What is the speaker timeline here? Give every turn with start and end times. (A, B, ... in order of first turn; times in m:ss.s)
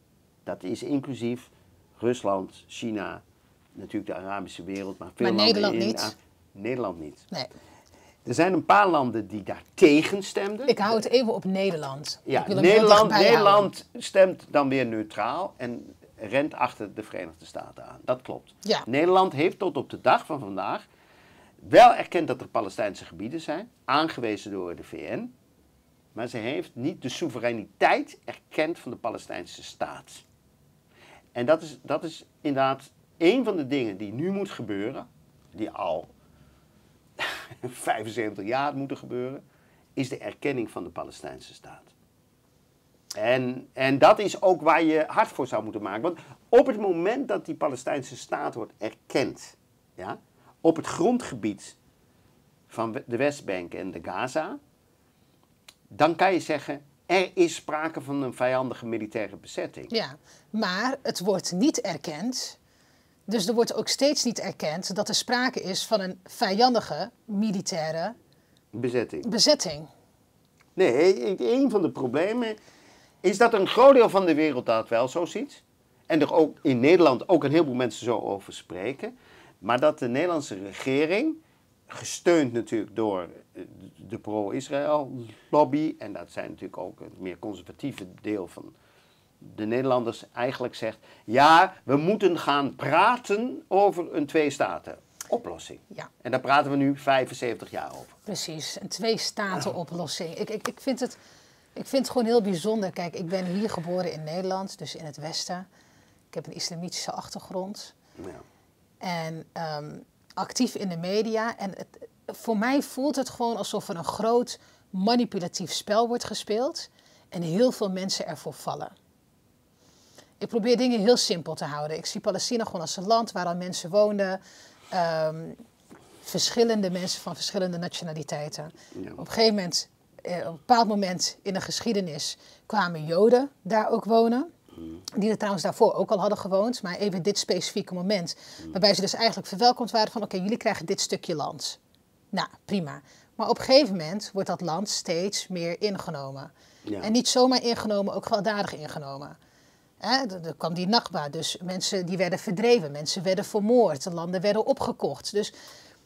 0:00.4-0:03.2 A
0:03.8-0:07.3 A
0:05.2-0:06.1 B
0:08.2-0:10.9 A
0:10.7-0:13.7 B
0:12.3-0:20.9 A
0:21.6-0:25.3 A
0:26.2-0:30.2 A
0:31.3-0:36.1 A
0:37.2-0:39.4 A
0:40.0-0:41.9 A
0:43.1-0:51.8 A
0:52.7-0:54.6 A
0:55.9-0:59.9 A
0:59.9-1:02.6 B
1:03.3-1:08.2 B
1:08.7-1:09.3 A
1:09.2-1:09.9 B
1:10.8-1:12.6 A
1:13.2-1:28.8 A
1:29.4-1:38.1 A
1:38.3-1:41.2 B
1:41.8-1:45.7 B
1:46.3-1:47.9 B
1:48.2-1:48.4 A
1:49.0-1:58.9 B
2:00.4-2:04.4 B
2:04.9-2:05.6 B
2:06.2-2:14.5 B
2:08.9-2:09.2 A
2:15.2-2:21.8 B
2:22.3-2:29.4 B
2:26.8-2:27.1 A
2:30.0-2:35.5 B